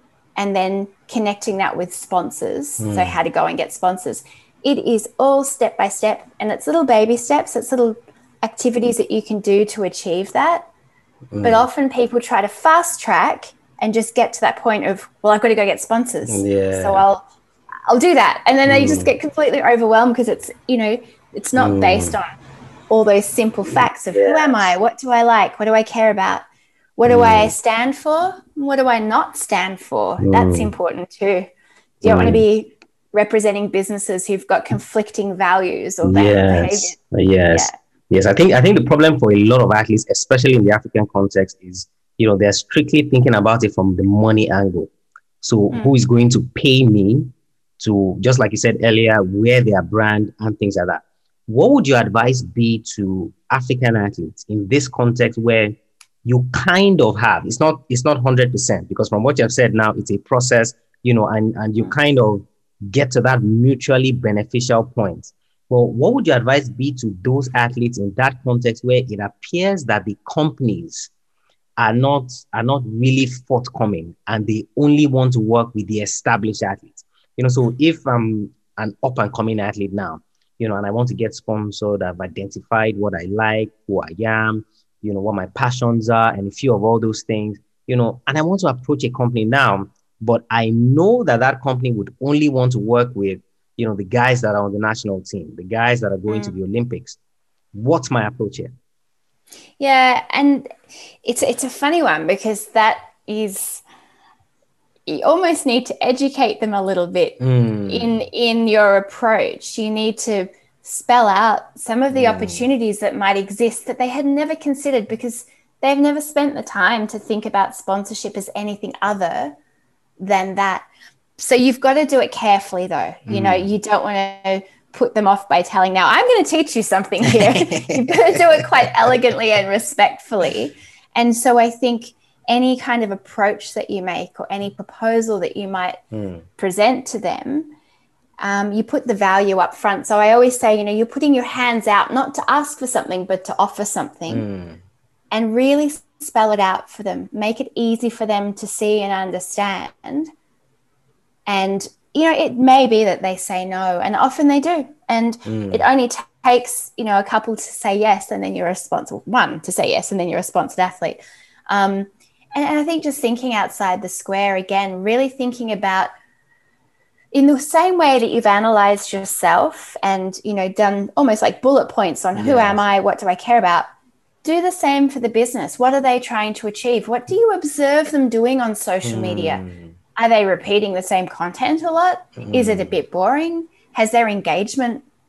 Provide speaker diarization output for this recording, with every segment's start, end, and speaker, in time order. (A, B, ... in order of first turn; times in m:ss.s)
0:00.4-0:10.7 A
0:02.8-0:03.2 B
0:11.3-0:11.7 B
0:11.4-0:17.2 A
0:16.2-0:17.0 B
0:17.9-0:22.3 A
0:18.6-0:19.1 B
0:21.6-0:22.2 B
0:22.9-0:26.4 A
0:24.1-0:24.7 B
0:27.0-0:31.5 A
0:27.0-0:27.5 B
0:30.2-0:30.7 B
0:32.0-0:37.0 A
0:32.0-0:32.4 B
0:36.0-1:11.1 B
0:45.7-0:46.0 A
1:11.8-1:37.2 B
1:36.3-1:36.5 A
1:37.7-1:38.7 B
1:39.8-1:43.8 A
1:45.1-1:59.6 A
1:47.4-1:48.1 B
1:52.1-1:52.7 B
2:00.2-2:00.8 A
2:01.4-2:16.0 A
2:03.3-2:03.7 B
2:07.2-2:08.9 B
2:16.1-2:16.4 B
2:16.6-2:17.7 A
2:18.4-2:24.4 A
2:24.3-2:24.8 B
2:25.3-2:30.3 A
2:31.5-2:46.1 A
2:35.4-2:35.8 B
2:47.3-2:53.9 A
2:52.3-2:52.8 B
2:54.4-2:59.6 A
2:59.0-2:59.9 B
3:00.2-3:05.0 A
3:02.4-3:02.9 B